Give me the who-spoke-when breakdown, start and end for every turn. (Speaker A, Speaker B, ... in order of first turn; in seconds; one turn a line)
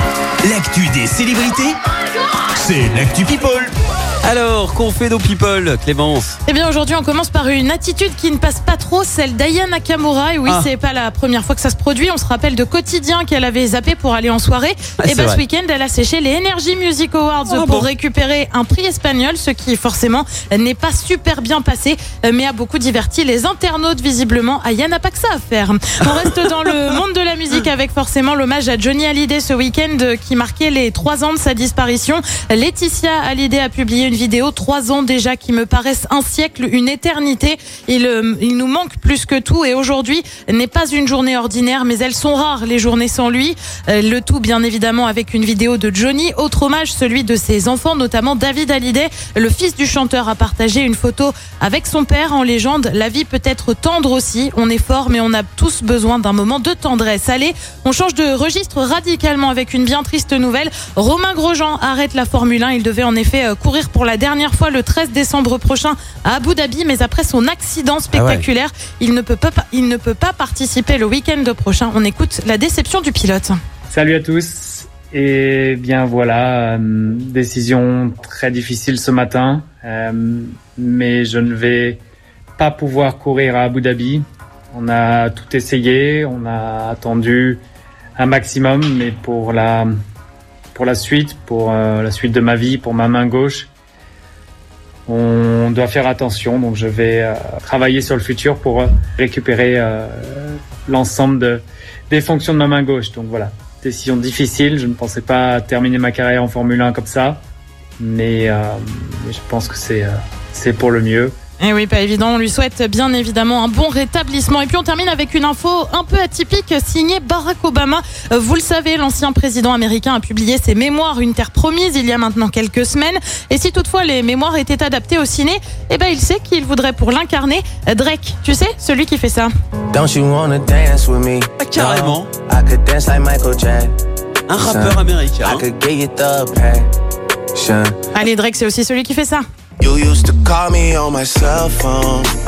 Speaker A: 0.4-1.8
Speaker A: 2.5-3.5
Speaker B: 3.3-3.7
Speaker B: 4.2-6.4
Speaker C: 6.5-73.6
Speaker B: 15.0-15.4
Speaker B: 17.5-17.9
Speaker B: 68.1-68.5
Speaker D: 73.9-82.0
Speaker D: 82.6-87.6
Speaker D: 88.2-89.9
Speaker D: 90.7-93.7
Speaker D: 95.1-107.4
Speaker D: 108.0-111.4
Speaker C: 111.6-129.5
Speaker E: 129.9-133.9
Speaker B: 131.6-132.3
Speaker B: 134.5-135.7
Speaker E: 134.6-136.9
Speaker E: 137.5-137.9
Speaker C: 138.1-139.5
Speaker E: 139.8-142.3